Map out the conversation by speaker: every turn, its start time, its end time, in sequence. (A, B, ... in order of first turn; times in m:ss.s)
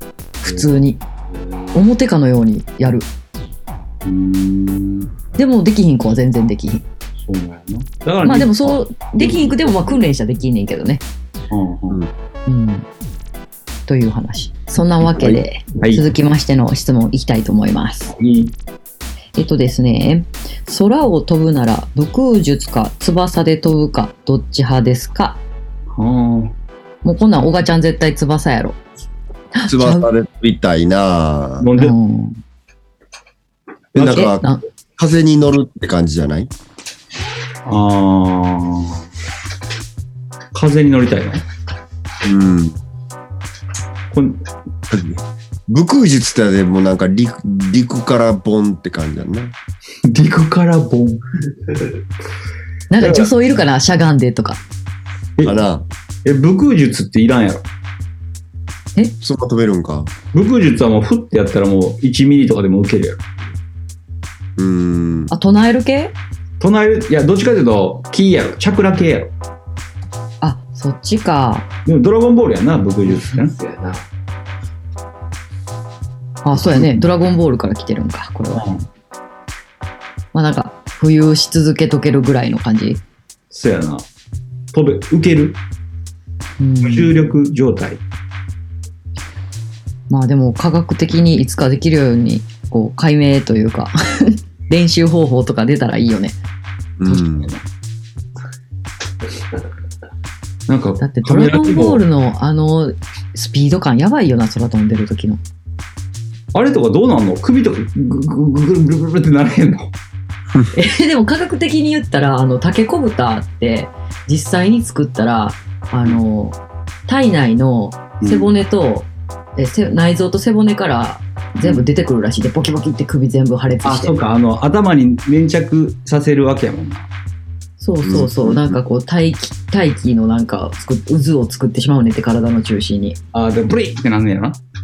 0:00.4-0:01.0 A
0:01.3-0:01.8 B
0:01.7-0:03.1 A
0:04.0-0:05.1 B
0:05.4-0:06.8 A
0:07.2-0:10.0 B
0:08.2-0:11.0 A
0:11.5-0:12.0 B
0:12.5-0:12.9 A
0:13.9-0:18.1 A
0:15.8-0:16.1 B
0:18.1-0:18.5 B
0:19.4-0:25.4 A
0:25.9-0:26.6 B
0:27.0-0:28.8 A
0:29.5-0:30.1 A
0:29.7-0:31.7 C
0:31.6-0:32.0 B
0:31.8-0:32.4 A
0:34.0-0:34.4 C
0:34.0-0:34.2 B
0:34.0-0:34.6 A
0:35.0-0:36.5 C
0:37.7-0:39.0 B
0:40.5-0:41.4 B
0:42.2-0:42.8 C
0:44.1-0:44.4 B
0:44.9-0:49.6 C
0:50.0-0:51.2 B
0:52.9-0:54.6 A
0:53.0-0:53.3 B
0:55.4-0:55.6 B
0:55.4-0:55.9 C
0:56.2-0:57.7 B
0:59.2-1:00.1 C
1:00.3-1:03.2 B
1:04.6-1:05.3 C
1:05.3-1:06.2 A
1:06.6-1:09.3 B
1:10.4-1:11.7 A
1:11.9-1:14.0 B
1:16.4-1:18.6 A
1:18.6-1:18.9 B
1:20.3-1:23.0 A
1:23.5-1:24.1 B
1:24.7-1:25.6 B
1:26.6-1:27.2 A
1:26.8-1:28.0 B
1:30.1-1:36.4 A
1:37.0-1:37.5 C
1:40.7-1:42.0 B
1:41.0-1:45.4 A
1:46.5-1:49.9 B
1:50.7-2:04.2 A
1:58.2-1:58.5 B
2:03.8-2:07.1 B
2:07.8-2:13.2 A
2:08.0-2:08.8 C
2:13.3-2:14.6 B